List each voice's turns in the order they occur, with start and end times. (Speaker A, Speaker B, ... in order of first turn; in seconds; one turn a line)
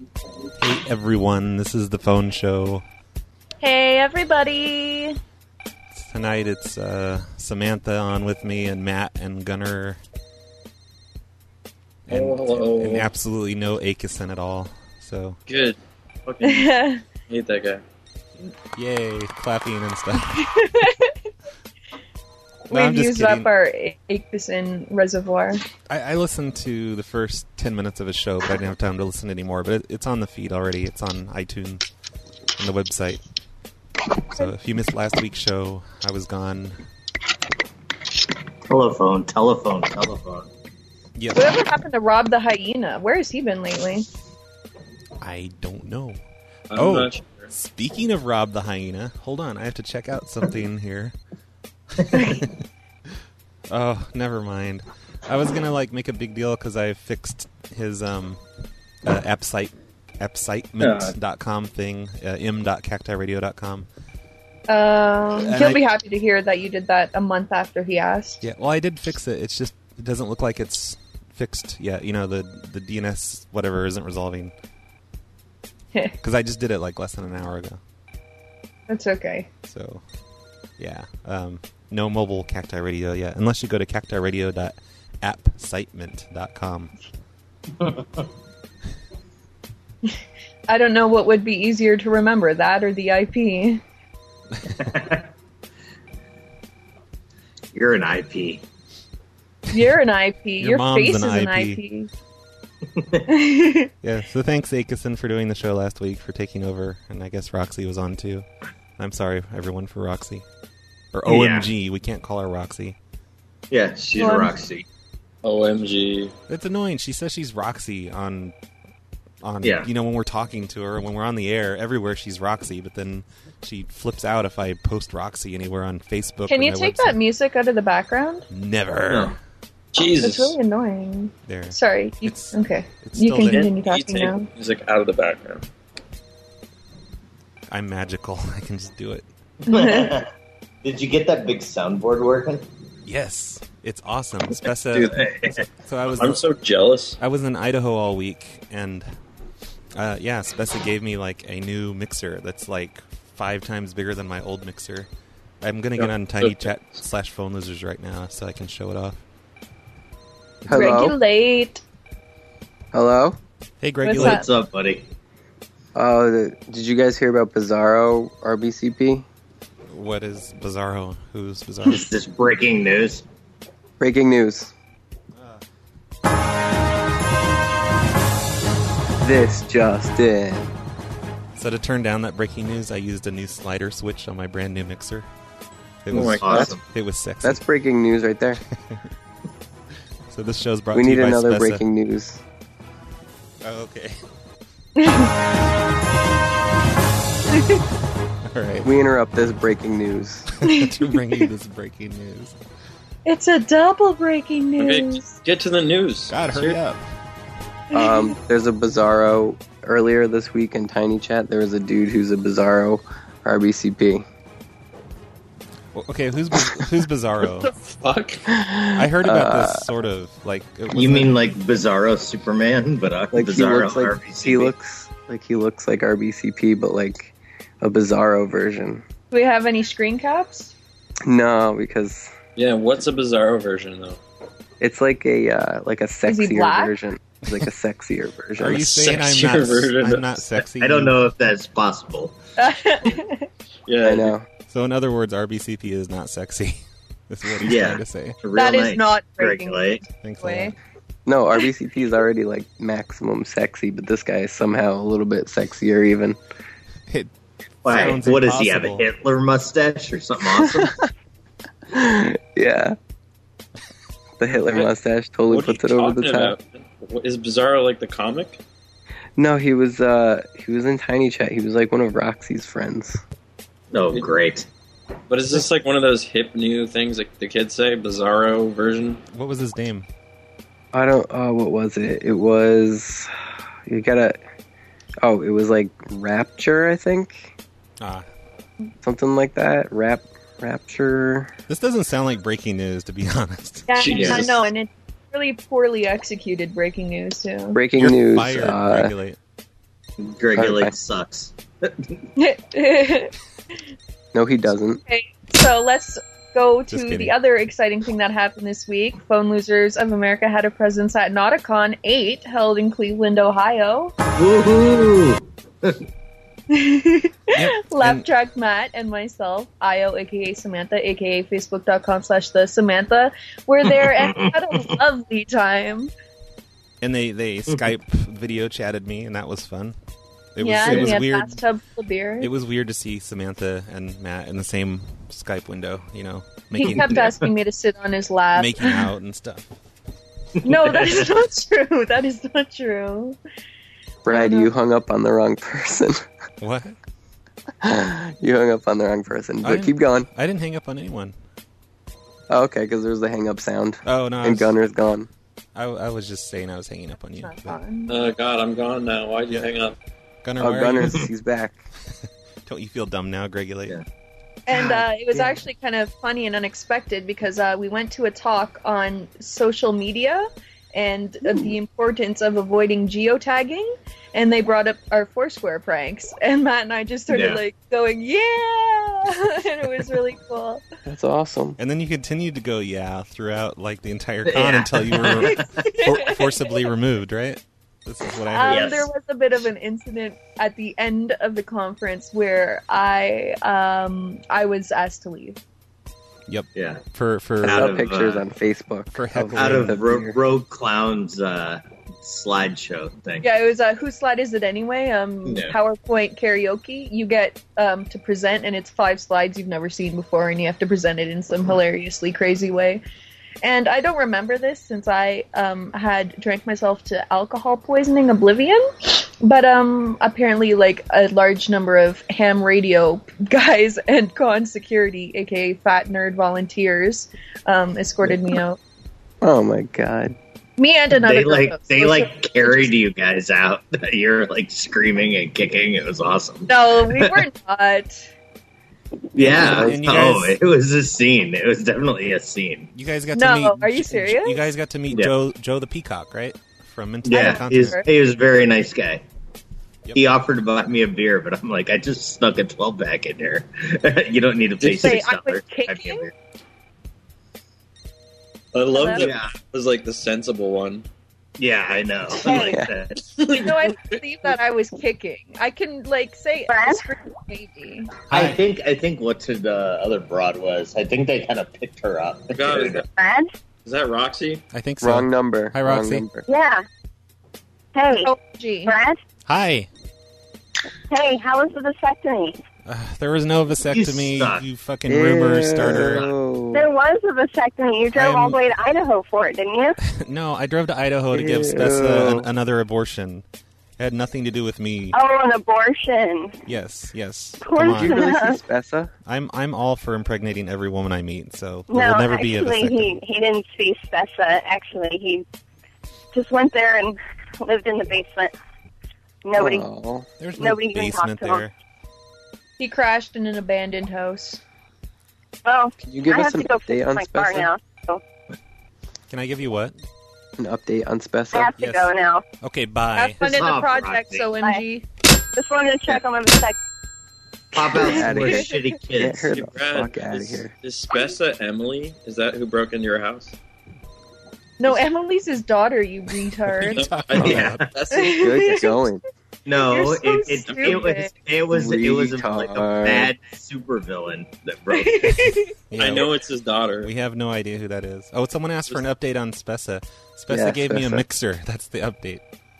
Speaker A: 0.6-2.8
Speaker B: 3.6-5.2
Speaker A: 5.9-10.0
Speaker A: 12.1-15.4
Speaker C: 12.1-13.1
Speaker C: 15.5-16.7
Speaker B: 16.4-17.0
Speaker C: 17.3-17.8
Speaker A: 18.7-20.4
Speaker B: 20.3-21.1
Speaker B: 22.7-25.6
Speaker A: 22.7-23.5
Speaker A: 25.9-31.8
Speaker A: 32.6-33.2
Speaker A: 34.4-36.8
Speaker D: 38.7-40.5
Speaker A: 41.2-41.6
Speaker B: 41.3-44.0
Speaker A: 45.2-46.2
Speaker C: 46.7-47.5
Speaker A: 46.7-51.1
Speaker D: 52.0-52.5
Speaker A: 52.1-52.4
Speaker A: 53.7-58.4
Speaker A: 59.0-63.9
Speaker D: 60.8-61.1
Speaker B: 64.7-68.4
Speaker A: 65.4-65.8
Speaker A: 68.4-74.5
Speaker A: 76.2-77.8
Speaker B: 78.9-79.5
Speaker A: 79.7-80.0
Speaker A: 80.8-86.9
Speaker D: 87.8-88.2
Speaker B: 90.7-93.8
Speaker D: 94.7-95.2
Speaker D: 97.7-98.6
Speaker B: 99.7-102.1
Speaker A: 100.6-101.8
Speaker D: 103.0-103.2
Speaker B: 103.3-103.9
Speaker A: 104.0-108.5
Speaker A: 109.0-110.4
Speaker A: 111.1-113.0
Speaker D: 111.3-111.7
Speaker D: 113.7-114.8
Speaker B: 114.2-114.5
Speaker C: 115.4-116.3
Speaker A: 116.5-118.5
Speaker A: 119.4-127.2
Speaker D: 119.6-119.9
Speaker B: 126.5-128.5
Speaker A: 128.5-129.3
Speaker D: 129.1-129.3
Speaker C: 129.9-130.6
Speaker B: 130.2-134.5
Speaker A: 131.4-133.7
Speaker C: 133.5-135.6
Speaker A: 137.7-139.2
Speaker D: 139.7-140.3
Speaker B: 139.7-140.1
Speaker D: 140.8-142.6
Speaker A: 143.1-146.4
Speaker D: 144.9-145.7
Speaker C: 146.1-147.2
Speaker A: 147.2-149.1
Speaker A: 149.9-155.1
Speaker A: 155.6-159.2
Speaker C: 156.0-157.0
Speaker E: 160.7-161.2
Speaker B: 160.7-161.8
Speaker E: 162.9-163.4
Speaker A: 163.8-164.4
Speaker B: 164.0-164.4
Speaker D: 164.1-165.1
Speaker E: 165.9-169.2
Speaker A: 169.9-172.1
Speaker D: 171.9-173.2
Speaker E: 174.0-174.7
Speaker A: 175.4-175.6
Speaker E: 179.2-180.7
Speaker A: 181.6-185.3
Speaker A: 186.1-187.6
Speaker C: 186.1-186.7
Speaker D: 186.1-186.8
Speaker E: 187.4-188.6
Speaker A: 190.3-191.8
Speaker E: 190.9-192.4
Speaker A: 193.6-194.2
Speaker B: 195.0-195.3
Speaker B: 197.5-197.8
Speaker A: 198.4-198.9
Speaker E: 198.8-200.4
Speaker A: 200.6-202.5
Speaker B: 200.6-201.4
Speaker B: 203.2-205.4
Speaker C: 204.8-206.8
Speaker A: 206.3-207.0
Speaker E: 207.9-214.2
Speaker B: 207.9-208.3
Speaker A: 215.9-217.7
Speaker C: 217.6-218.4
Speaker E: 218.5-219.9
Speaker A: 219.0-221.4
Speaker D: 220.9-224.7
Speaker E: 223.3-229.0
Speaker B: 229.3-230.7
Speaker E: 231.2-232.3
Speaker C: 232.6-234.2
Speaker E: 234.8-239.1
Speaker B: 236.2-236.9
Speaker A: 238.6-241.2
Speaker C: 238.6-240.4
Speaker D: 240.8-242.3
Speaker B: 242.6-243.5
Speaker C: 243.9-244.3
Speaker E: 244.0-244.5
Speaker A: 244.7-248.4
Speaker D: 247.6-250.1
Speaker B: 248.5-250.7
Speaker A: 250.1-250.7
Speaker E: 251.2-256.4
Speaker A: 257.8-259.0
Speaker D: 257.8-260.9
Speaker E: 257.9-258.2
Speaker E: 260.5-260.9
Speaker E: 261.9-262.9
Speaker E: 264.4-266.5
Speaker C: 264.5-264.9
Speaker C: 265.5-268.6
Speaker E: 269.4-273.2
Speaker D: 273.9-274.6
Speaker C: 275.3-279.2
Speaker A: 279.3-280.1
Speaker E: 280.9-283.3
Speaker E: 283.9-284.4
Speaker E: 285.2-287.5
Speaker A: 288.0-288.2
Speaker E: 289.0-291.5
Speaker A: 291.7-294.0
Speaker B: 293.9-297.8
Speaker C: 294.0-294.5
Speaker D: 294.1-294.5
Speaker E: 297.7-299.1
Speaker A: 298.0-299.4
Speaker D: 300.2-302.1
Speaker E: 300.5-300.9
Speaker B: 302.4-303.3
Speaker E: 304.3-305.0
Speaker B: 305.1-314.1
Speaker A: 306.9-307.3
Speaker D: 314.4-316.0
Speaker B: 316.7-326.1
Speaker A: 317.5-318.2
Speaker D: 323.9-324.9
Speaker A: 327.0-329.9
Speaker A: 330.5-331.6
Speaker B: 330.6-332.5
Speaker D: 330.9-331.2
Speaker A: 332.4-337.3
Speaker B: 336.8-339.0
Speaker D: 336.8-337.3
Speaker A: 338.5-339.7
Speaker D: 340.6-341.3
Speaker B: 340.6-343.4
Speaker E: 344.2-346.2
Speaker B: 344.3-344.7
Speaker A: 346.6-346.9
Speaker E: 347.8-350.3
Speaker A: 349.6-351.3
Speaker E: 352.5-355.3
Speaker A: 354.0-354.7
Speaker A: 355.7-357.8
Speaker B: 357.4-358.1
Speaker C: 358.1-359.9
Speaker A: 360.4-361.2
Speaker E: 360.6-361.8
Speaker A: 362.6-364.0
Speaker B: 364.7-380.8
Speaker D: 364.7-365.0
Speaker E: 365.3-365.6
Speaker D: 377.3-377.6
Speaker E: 381.1-381.8
Speaker A: 381.8-388.9
Speaker D: 384.5-385.6
Speaker B: 385.5-386.7
Speaker B: 388.5-395.6
Speaker D: 388.7-389.1
Speaker A: 396.5-398.0
Speaker D: 396.8-397.0
Speaker E: 397.6-400.4
Speaker D: 397.6-398.4
Speaker A: 399.1-400.0
Speaker D: 399.5-403.5
Speaker B: 403.4-413.0
Speaker D: 405.4-405.8
Speaker B: 413.6-428.8
Speaker E: 429.4-430.3
Speaker B: 430.8-432.9
Speaker D: 431.1-437.3
Speaker B: 436.7-438.2
Speaker D: 439.3-442.9
Speaker E: 439.4-440.0
Speaker A: 439.5-440.6
Speaker A: 442.9-448.0
Speaker B: 443.3-444.6
Speaker D: 447.2-449.2
Speaker B: 447.3-448.1
Speaker D: 450.1-456.3
Speaker C: 454.8-455.1
Speaker B: 454.9-456.2
Speaker C: 458.7-461.0
Speaker B: 458.9-459.3
Speaker D: 459.1-459.5
Speaker D: 461.6-463.6
Speaker E: 462.4-462.9
Speaker C: 463.4-464.2
Speaker B: 463.6-468.1
Speaker F: 466.7-467.1
Speaker D: 468.3-473.0
Speaker A: 468.3-468.6
Speaker C: 472.5-473.1
Speaker F: 473.1-473.5
Speaker C: 473.8-474.6
Speaker A: 474.7-476.3
Speaker E: 475.0-476.4
Speaker F: 476.4-476.8
Speaker F: 477.9-478.3
Speaker B: 478.2-478.9
Speaker F: 478.9-479.2
Speaker A: 479.5-479.9
Speaker F: 481.1-482.6
Speaker A: 482.9-486.2
Speaker D: 483.8-484.6
Speaker E: 485.1-486.9
Speaker F: 486.7-490.0
Speaker A: 488.1-488.6
Speaker A: 490.0-493.4
Speaker E: 491.3-492.5
Speaker A: 494.0-495.1
Speaker F: 495.1-496.5
Speaker A: 496.7-498.3
Speaker F: 497.6-498.6
Speaker E: 497.8-499.1
Speaker A: 499.2-503.2
Speaker F: 501.9-505.4
Speaker F: 506.3-508.5
Speaker F: 509.4-509.8
Speaker E: 509.6-510.3
Speaker A: 510.4-511.7
Speaker F: 510.6-511.7
Speaker B: 512.8-514.6
Speaker F: 515.6-518.2
Speaker E: 516.0-517.7
Speaker A: 519.3-519.9
Speaker E: 520.6-521.7
Speaker F: 521.5-522.4
Speaker A: 521.8-522.1
Speaker A: 522.6-523.4
Speaker B: 523.1-525.0
Speaker D: 523.4-524.5
Speaker F: 525.5-526.8
Speaker D: 527.7-529.5
Speaker B: 527.9-528.7
Speaker E: 528.1-530.7
Speaker C: 529.5-533.5
Speaker B: 534.8-537.0
Speaker A: 536.6-537.8
Speaker C: 536.9-538.5
Speaker D: 537.3-537.8
Speaker B: 538.1-539.1
Speaker E: 538.4-539.2
Speaker D: 539.6-545.3
Speaker B: 539.8-541.3
Speaker E: 541.7-543.3
Speaker B: 544.9-545.7
Speaker A: 545.9-546.3
Speaker C: 546.0-547.1
Speaker A: 547.0-552.4
Speaker E: 550.5-551.2